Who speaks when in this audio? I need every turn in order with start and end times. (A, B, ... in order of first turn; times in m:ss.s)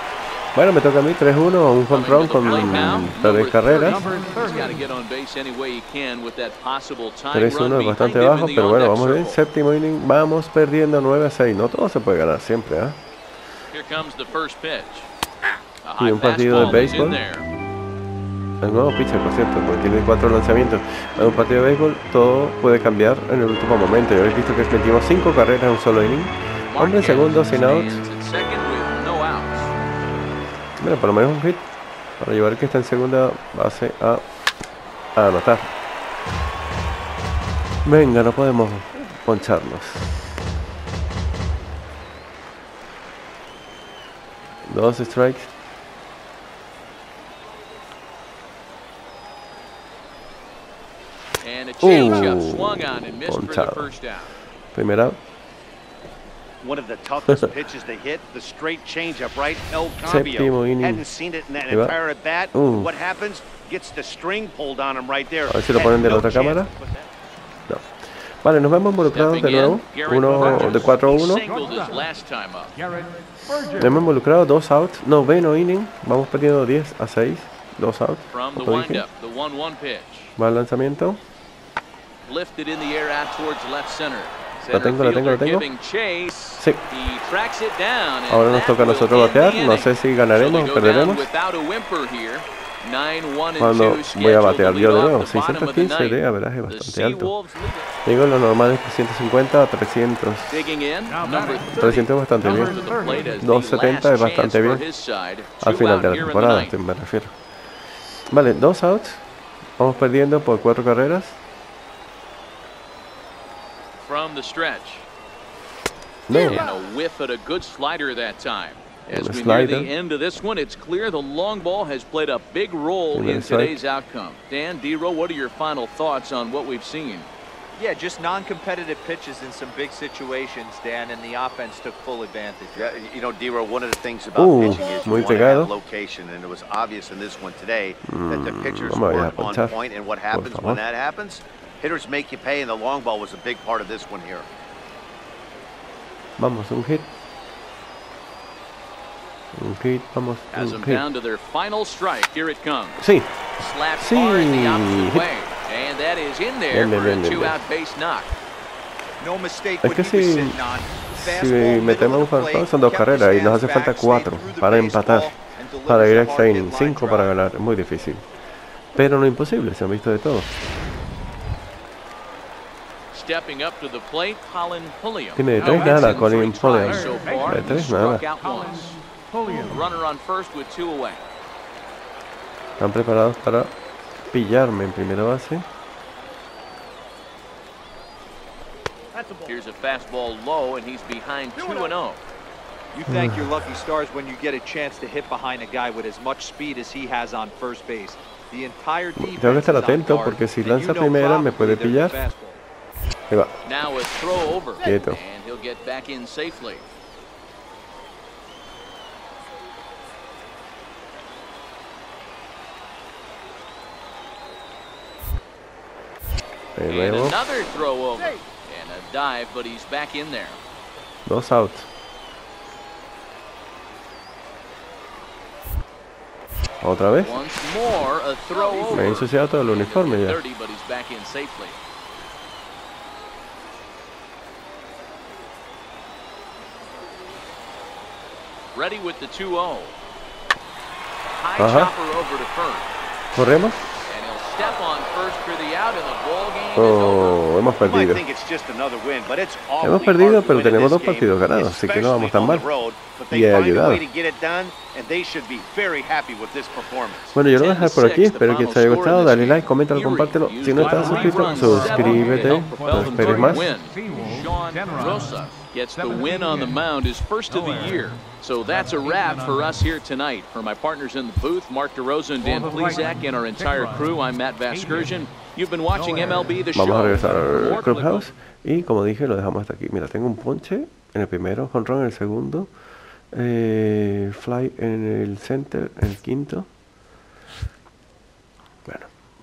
0:00.6-0:04.1 A
0:01.9-0:09.4 B
0:03.9-0:04.9 C
0:07.3-0:13.0 A
0:13.7-0:15.1 B
0:15.8-0:17.5 B
0:16.0-0:17.2 A
0:18.6-0:28.0 A
0:26.7-0:29.8 B
0:30.8-0:31.7 A
0:32.2-0:34.2 A
0:35.2-0:35.7 A
0:37.8-0:40.1 A
0:44.7-0:45.5 A
0:51.4-0:54.4 B
0:51.8-0:53.9 A
0:54.7-0:55.2 A
0:56.6-1:06.8 D
1:00.0-1:01.0 A
1:01.7-1:02.0 A
1:02.5-1:02.9 A
1:05.5-1:06.7 A
1:07.7-1:11.4 A
1:09.1-1:12.8 B
1:10.4-1:10.8 C
1:11.5-1:12.0 C
1:12.8-1:14.0 C
1:13.8-1:19.0 A
1:18.3-1:20.4 B
1:20.4-1:21.2 A
1:22.3-1:37.9 B
1:24.7-1:25.7 A
1:28.3-1:31.3 A
1:33.6-1:37.3 A
1:38.0-1:40.7 A
1:40.5-1:46.8 B
1:41.1-1:41.7 C
1:41.7-1:42.8 A
1:42.4-1:43.4 C
1:43.4-1:44.8 A
1:45.6-1:47.4 A
1:48.3-1:49.2 A
1:49.8-1:51.4 A
1:54.0-1:55.1 B
1:56.3-1:56.6 A
1:56.3-2:07.3 B
1:59.1-1:59.9 A
2:03.1-2:03.8 A
2:07.8-2:13.0 E
2:12.8-2:24.5 D
2:14.4-2:15.7 A
2:14.6-2:15.4 E
2:18.0-2:20.8 A
2:26.4-2:27.1 A
2:29.6-2:31.0 A
2:30.5-2:38.3 B
2:33.0-2:33.3 A
2:34.0-2:35.3 A
2:36.7-2:37.6 A
2:39.2-2:47.4 E
2:39.8-2:40.6 A
2:41.1-2:45.3 A
2:45.9-2:48.2 A
2:48.9-2:50.5 A
2:53.1-2:59.0 B
2:55.4-2:58.2 A
2:57.0-2:57.6 C
2:58.4-2:59.8 C
2:59.6-3:01.2 B
3:02.8-3:03.7 A
3:04.3-3:05.6 A
3:09.5-3:12.2 B
3:12.9-3:22.6 E
3:13.1-3:13.4 A
3:19.2-3:22.2 A
3:23.6-3:26.8 B
3:24.8-3:25.2 A
3:36.8-3:37.4 A
3:36.9-3:40.6 B
3:41.2-3:41.9 A
3:46.8-3:47.4 A
3:47.2-3:51.8 B
3:48.8-3:50.4 A
3:58.7-4:00.0 B
4:01.4-4:02.9 B
4:01.6-4:01.9 A
4:03.3-4:03.8 A
4:04.1-4:07.4 B
4:06.8-4:08.2 A
4:07.8-4:17.4 D
4:09.8-4:12.7 A
4:13.3-4:14.0 A
4:17.3-4:23.7 A
4:17.5-4:38.3 B
4:20.7-4:26.8 C
4:27.5-4:29.8 C
4:32.4-4:35.2 C
4:35.9-4:36.8 C
4:36.7-4:42.7 A
4:37.3-4:37.9 C
4:43.3-4:46.7 A
4:48.9-4:49.1 A